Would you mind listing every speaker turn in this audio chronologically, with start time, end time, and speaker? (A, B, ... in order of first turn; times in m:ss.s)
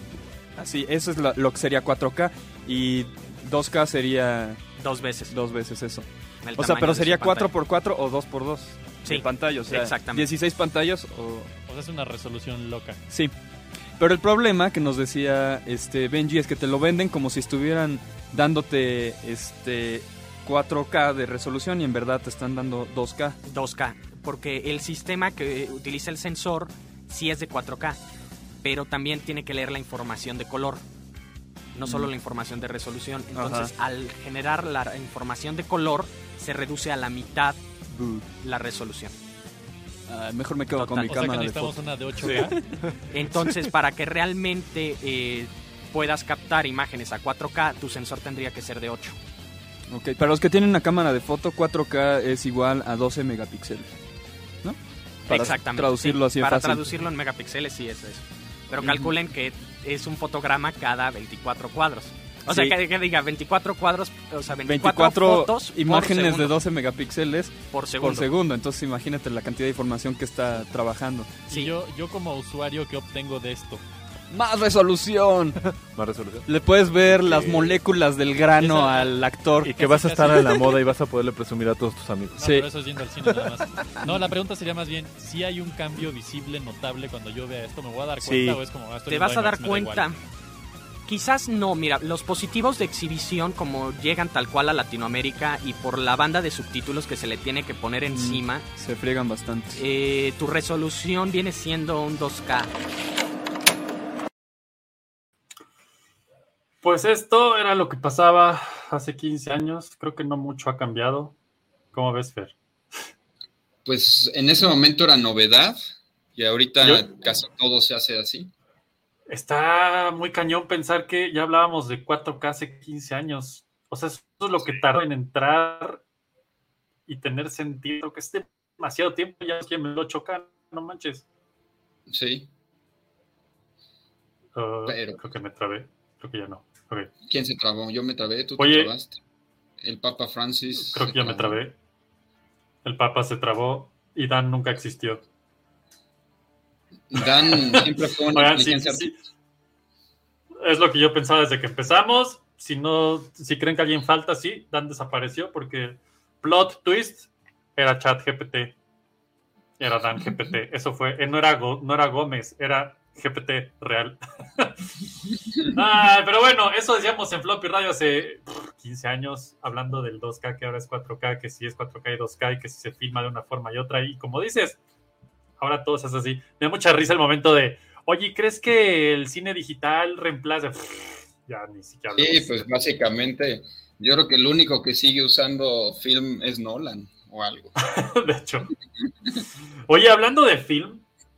0:00.6-0:04.6 A
0:04.8-0:05.3 B
0:05.3-0:11.5 A
0:06.4-0:07.5 B
0:09.0-0:10.3 B
0:11.7-0:13.0 C
0:14.0-0:23.4 A
0:23.5-0:28.0 B
0:28.6-0:30.8 B
0:31.8-0:37.6 B
0:31.8-0:32.1 A
0:33.3-0:33.7 A
0:38.0-0:38.2 A
0:38.4-0:39.2 B
0:40.1-0:42.6 A
0:40.8-0:42.6 C
0:40.9-0:41.2 B
0:43.1-0:49.2 B
0:49.9-0:53.9 A
0:54.6-0:57.0 A
0:55.3-1:06.6 B
0:58.7-0:59.2 A
1:02.5-1:02.8 A
1:04.6-1:11.5 A
1:07.7-1:08.3 B
1:11.5-1:13.8 C
1:14.3-1:15.6 A
1:15.6-1:17.8 D
1:16.4-1:20.3 A
1:18.6-1:20.8 C
1:19.6-1:22.7 D
1:22.4-1:30.2 C
1:23.2-1:24.0 D
1:28.2-1:28.6 D
1:29.1-1:30.2 B
1:31.1-1:38.7 B
1:38.1-1:39.8 A
1:39.8-1:42.7 B
1:46.8-1:51.4 E
1:51.9-1:52.5 E
1:53.8-1:55.8 F
1:56.4-1:58.5 F
1:56.8-1:57.1 E
1:59.3-2:06.0 E
2:07.1-2:11.2 E
2:12.1-2:12.5 F
2:14.6-2:17.1 E
2:14.9-2:15.2 F
2:17.3-2:19.2 F
2:18.6-2:18.9 E
2:19.8-2:21.6 F
2:20.8-2:21.8 E
2:22.8-2:25.2 E
2:27.1-2:29.1 F
2:27.2-2:29.2 E
2:30.6-2:38.8 E
2:39.8-2:44.9 E
2:45.7-2:54.8 E
2:55.6-3:02.7 E
3:02.2-3:07.7 F
3:07.8-3:08.7 E
3:09.9-3:11.0 E